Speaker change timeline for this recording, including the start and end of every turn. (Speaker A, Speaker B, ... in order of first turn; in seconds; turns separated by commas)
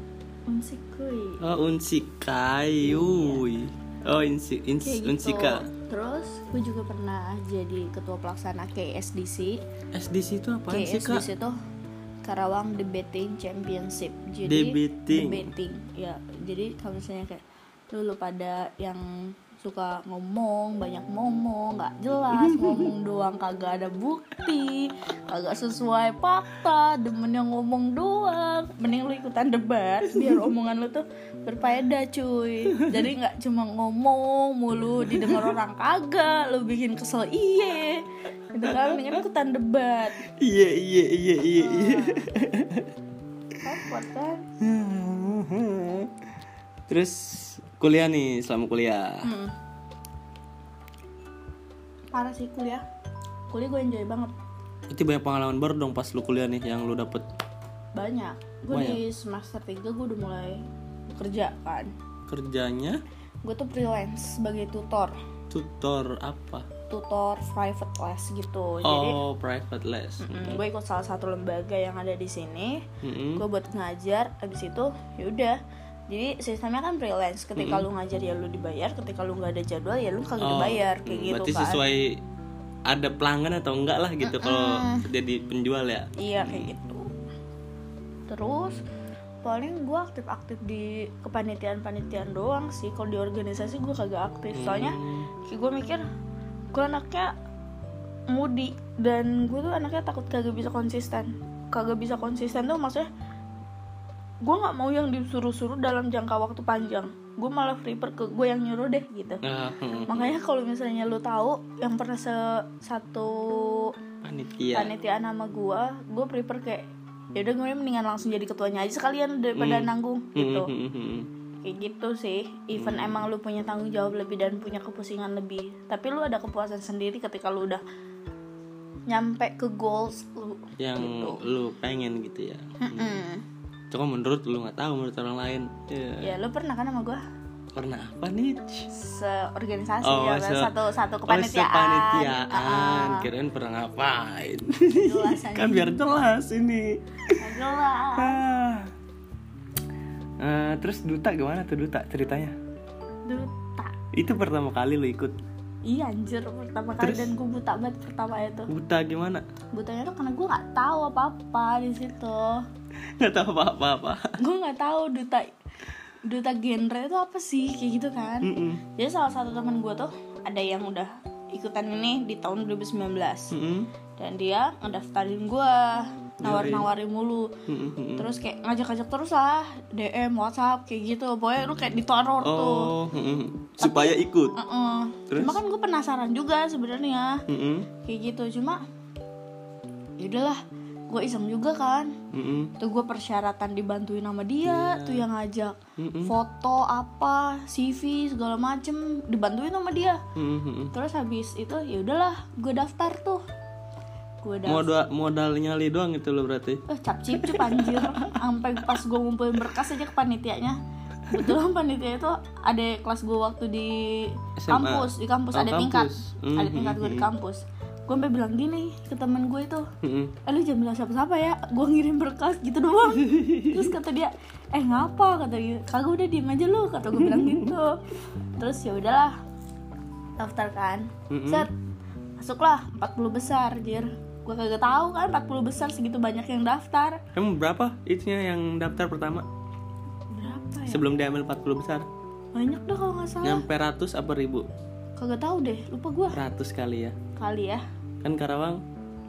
Speaker A: 0.5-1.4, Speaker B: 1.4-5.7, Speaker A: 2.8-3.4, Speaker A: 4.8-9.6, Speaker B: 9.9-11.3, Speaker A: 10.7-11.6, Speaker A: 12.2-40.2, Speaker B: 14.4-15.5, Speaker B: 22.3-22.9, Speaker B: 35.0-35.6, Speaker B: 38.6-39.2, Speaker B: 40.3-42.9, Speaker A: 41.6-42.3, Speaker A: 43.6-44.5, Speaker B: 44.6-46.1, Speaker B: 46.9-49.3, Speaker A: 49.2-49.5, Speaker A: 52.1-52.9, Speaker A: 53.5-54.3, Speaker B: 54.9-57.3, Speaker A: 58.0-60.6, Speaker B: 58.7-59.0, Speaker A: 61.1-61.9, Speaker B: 62.3-63.0, Speaker A: 63.4-65.2, Speaker B: 65.5-66.7, Speaker A: 66.9-69.2, Speaker B: 68.8-70.6, Speaker A: 70.2-72.8, Speaker B: 73.0-73.4, Speaker A: 73.4-75.6, Speaker A: 76.1-81.8, Speaker B: 77.6-77.9, Speaker B: 80.4-82.2, Speaker B: 82.9-86.7, Speaker A: 84.2-85.1, Speaker A: 86.2-87.1, Speaker A: 88.3-88.8, Speaker A: 89.4-96.0, Speaker B: 94.5-95.3, Speaker A: 96.7-97.3, Speaker A: 98.3-103.1, Speaker A: 104.4-109.4, Speaker B: 109.4-110.4, Speaker A: 110.1-113.9, Speaker B: 114.2-114.9, Speaker A: 114.7-120.7, Speaker B: 119.6-121.3, Speaker A: 121.6-127.8, Speaker B: 122.8-123.3, Speaker A: 129.1-131.4, Speaker B: 130.8-133.2, Speaker A: 132.8-133.4, Speaker B: 133.9-136.4, Speaker A: 136.2-137.2, Speaker B: 137.8-138.9, Speaker A: 138.9-143.3, Speaker B: 140.0-140.7, Speaker B: 141.3-147.4, Speaker A: 144.9-146.0, Speaker A: 147.3-148.4, Speaker B: 148.2-148.9, Speaker B: 150.4-152.6, Speaker A: 153.3-154.0, Speaker B: 154.1-155.4, Speaker A: 155.8-158.7, Speaker B: 157.0-157.3, Speaker B: 158.7-159.4, Speaker A: 159.7-162.7, Speaker B: 163.2-164.4, Speaker A: 164.4-165.5, Speaker A: 166.2-173.5, Speaker B: 168.4-168.8, Speaker B: 173.5-173.9, Speaker A: 174.2-177.5, Speaker B: 176.4-176.9, Speaker B: 177.7-178.3, Speaker A: 178.2-182.9, Speaker B: 182.4-184.6, Speaker A: 183.8-187.4, Speaker B: 185.3-185.6, Speaker B: 187.5-187.9, Speaker A: 188.0-188.8, Speaker A: 190.2-192.2, Speaker B: 192.3-192.7, Speaker A: 192.8-200.2, Speaker B: 194.6-195.3, Speaker B: 196.0-196.3, Speaker B: 200.4-200.9, Speaker A: 200.9-203.4, Speaker A: 204.4-204.9, Speaker B: 204.7-208.4, Speaker A: 206.9-219.9, Speaker B: 214.6-217.3, Speaker B: 220.0-220.3, Speaker A: 220.4-228.0, Speaker B: 223.1-224.0, Speaker B: 227.1-227.7, Speaker A: 228.6-229.4, Speaker A: 230.4-231.7, Speaker B: 231.3-231.7, Speaker A: 232.4-237.2, Speaker B: 237.3-239.5, Speaker A: 240.3-241.1, Speaker B: 240.9-242.1, Speaker A: 242.6-243.7, Speaker B: 243.4-244.7, Speaker A: 245.2-246.4, Speaker B: 246.3-247.2, Speaker A: 247.4-247.8, Speaker B: 248.2-248.8